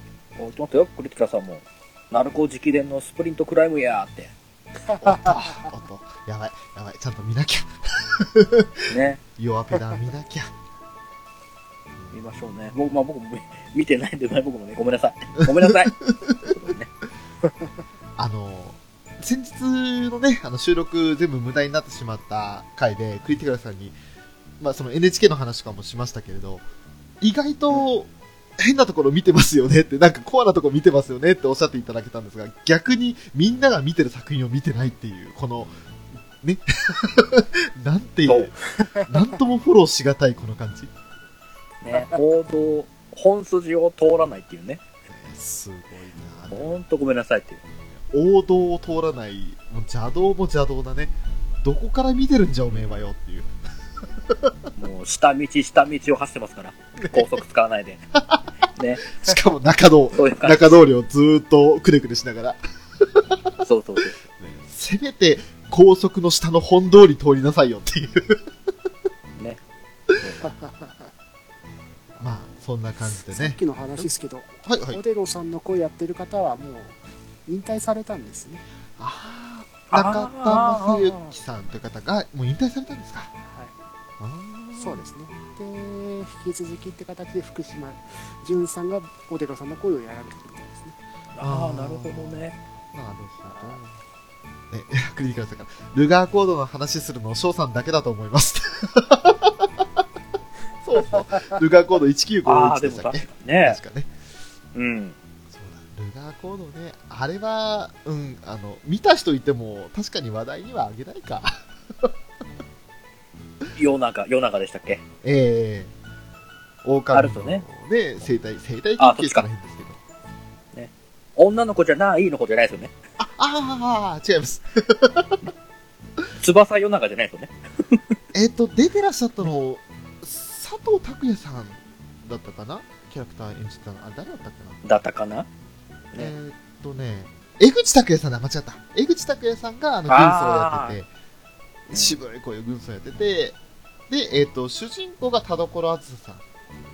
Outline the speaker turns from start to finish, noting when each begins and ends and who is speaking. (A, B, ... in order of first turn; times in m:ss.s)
0:00.4-0:04.3 A
0:05.0-0:10.5 B
0:08.9-0:09.2 A
0:12.1-0:16.9 A
0:15.7-0:16.3 B
0:18.2-0:24.0 B
0:24.6-0:26.6 B
0:27.2-0:35.7 B
0:36.4-0:40.9 B
0:38.3-0:38.5 A
0:38.8-0:39.1 C
0:41.8-0:44.8 A
0:45.1-0:46.8 B
0:46.5-0:47.6 A
0:47.9-0:53.5 B
0:52.7-0:53.0 A
0:54.3-0:54.6 B
0:54.8-0:58.0 A
0:57.0-0:57.4 B
0:58.2-0:58.4 B
0:58.8-0:59.1 A
0:59.1-1:03.4 B
1:00.1-1:00.8 A
1:03.6-1:04.1 A
1:04.4-1:08.4 B
1:10.2-1:10.5 A
1:10.4-1:11.1 C
1:12.2-1:14.0 B
1:13.3-1:18.6 C
1:14.6-1:15.0 B
1:19.0-1:23.3 B
1:19.9-1:21.0 A
1:23.4-1:23.7 C
1:24.2-1:25.0 B
1:24.7-1:31.0 C
1:31.4-1:32.6 A
1:31.4-1:34.0 B
1:33.5-1:33.8 C
1:34.7-1:39.9 B
1:40.8-1:44.1 B
1:42.4-1:43.8 A
1:44.7-1:45.2 A
1:45.5-1:52.1 B
1:53.7-1:55.0 A
1:55.2-1:55.9 B
1:56.8-2:00.0 B
1:57.1-1:57.6 A
1:59.0-1:59.4 A
2:00.7-2:02.9 A
2:03.2-2:05.4 B
2:06.4-2:08.2 A
2:08.3-2:14.8 B
2:14.8-2:15.5 A
2:16.1-2:21.1 B
2:20.1-2:21.0 A
2:21.9-2:23.6 B
2:24.1-2:26.4 B